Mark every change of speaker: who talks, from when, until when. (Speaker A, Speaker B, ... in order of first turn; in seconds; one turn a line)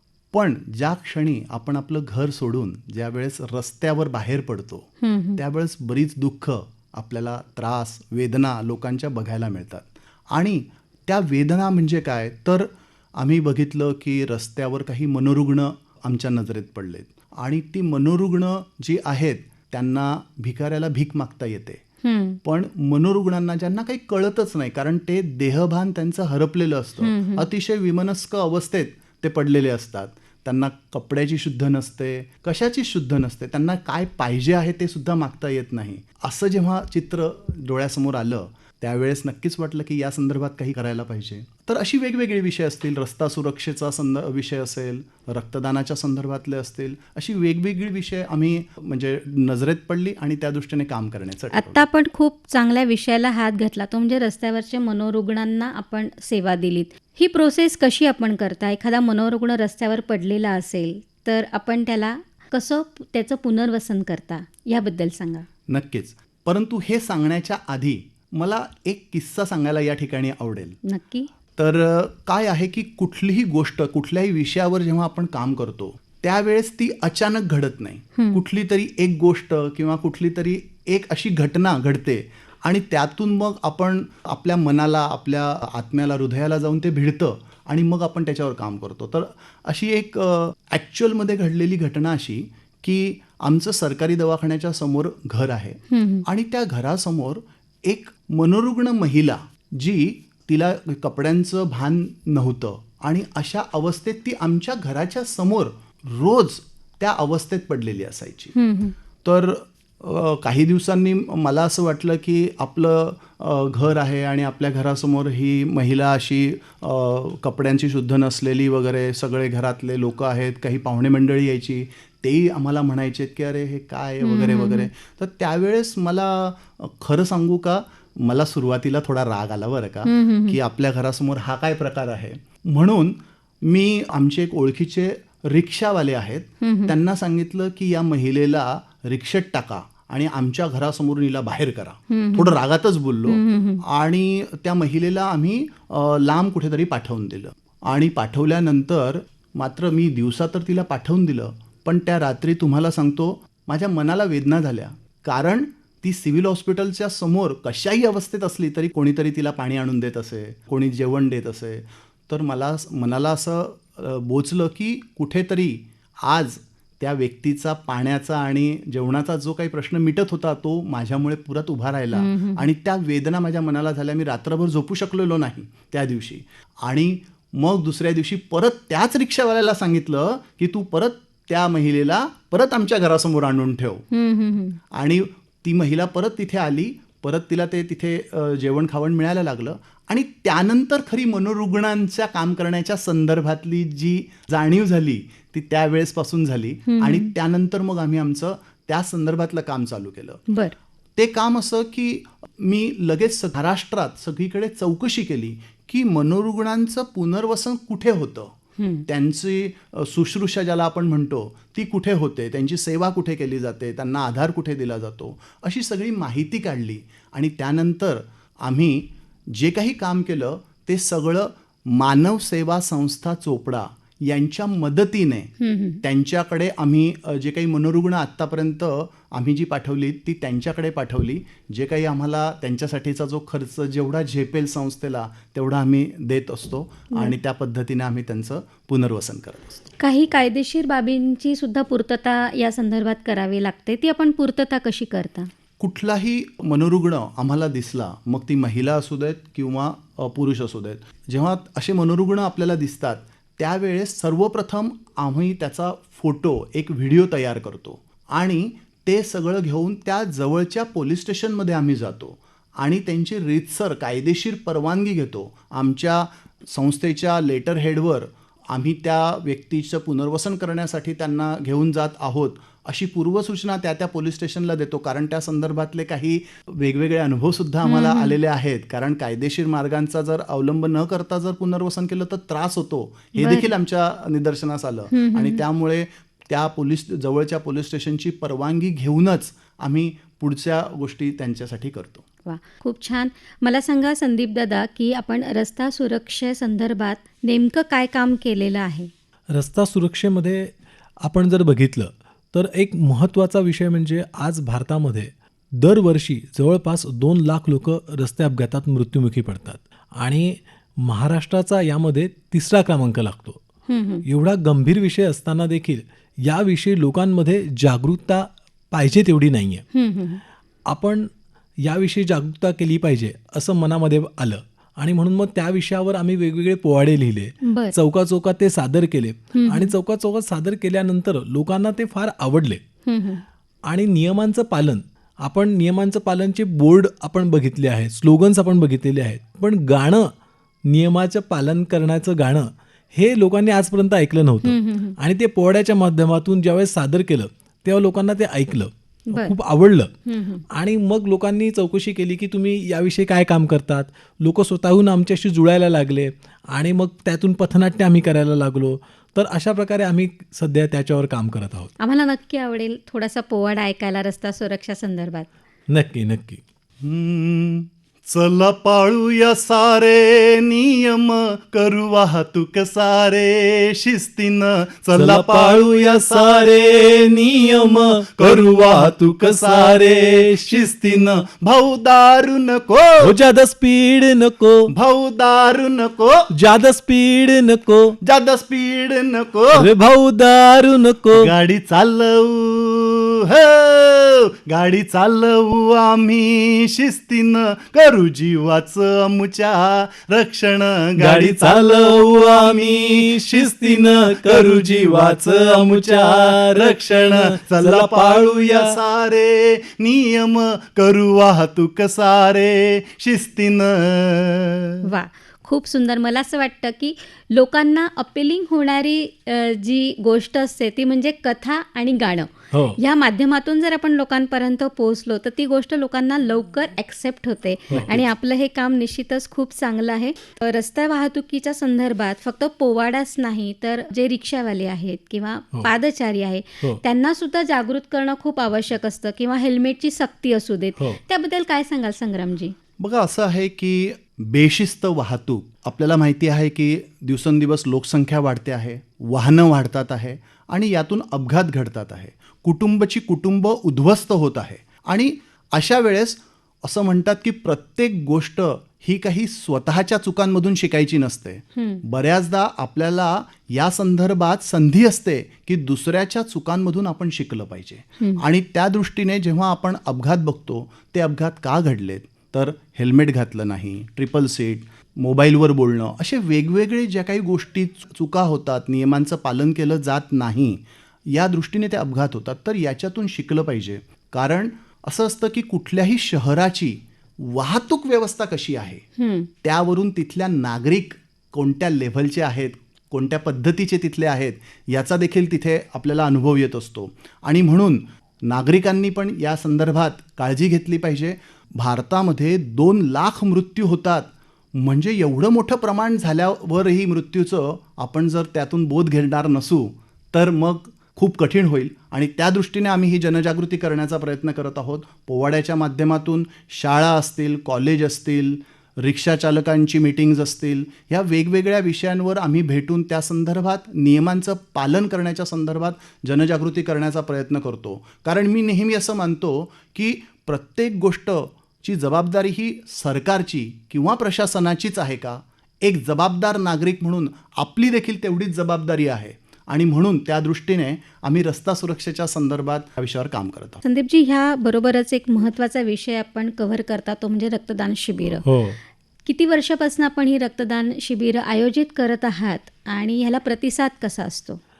Speaker A: 0.3-21.8
Speaker B: 5.0-5.4
Speaker B: 22.0-22.4
Speaker A: 22.4-51.8
Speaker B: 27.0-27.5
Speaker B: 51.5-65.5
Speaker A: 65.7-70.8
Speaker B: 70.8-71.3
Speaker A: 71.6-108.5
Speaker B: 78.2-78.4
Speaker B: 95.9-96.3
Speaker B: 108.5-109.0
Speaker A: 109.2-184.1
Speaker B: 124.2-124.9
Speaker B: 130.1-130.6
Speaker B: 136.6-136.9
Speaker B: 142.1-142.6
Speaker B: 143.3-143.8
Speaker B: 172.1-172.7
Speaker B: 184.1-184.8
Speaker A: 184.9-200.4
Speaker B: 196.9-197.3
Speaker B: 200.5-200.8
Speaker A: 201.2-208.5
Speaker B: 208.8-209.1
Speaker A: 209.1-225.5
Speaker B: 225.6-226.0
Speaker A: 226.0-239.8
Speaker B: 240.0-245.5
Speaker A: 245.8-292.2
Speaker B: 277.8-278.4
Speaker B: 283.4-283.7
Speaker B: 285.1-285.6
Speaker B: 292.5-299.1
Speaker C: 299.5-300.7
Speaker C: 301.2-313.6
Speaker B: 313.9-314.2
Speaker C: 314.3-319.9
Speaker B: 319.9-320.4
Speaker C: 320.9-321.3
Speaker C: 321.8-332.8
Speaker B: 327.6-327.9
Speaker B: 329.6-329.9
Speaker B: 333.1-333.4
Speaker C: 333.9-340.3
Speaker C: 340.9-350.1
Speaker B: 344.6-345.2
Speaker B: 350.3-350.6
Speaker C: 350.7-361.9
Speaker B: 362.0-365.5
Speaker C: 365.9-366.6
Speaker A: 367.0-383.4
Speaker C: 375.1-380.9
Speaker C: 383.2-384.9
Speaker A: 384.9-386.5
Speaker C: 386.5-388.2
Speaker A: 388.2-389.9
Speaker C: 389.7-391.5
Speaker A: 391.3-415.0
Speaker C: 401.2-409.0
Speaker B: 415.0-442.8
Speaker C: 422.7-423.0
Speaker C: 427.9-428.2
Speaker A: 443.0-489.0
Speaker B: 461.8-462.0
Speaker B: 489.2-489.5
Speaker A: 489.6-543.8
Speaker B: 543.8-548.5
Speaker C: 548.4-548.8
Speaker B: 549.2-554.6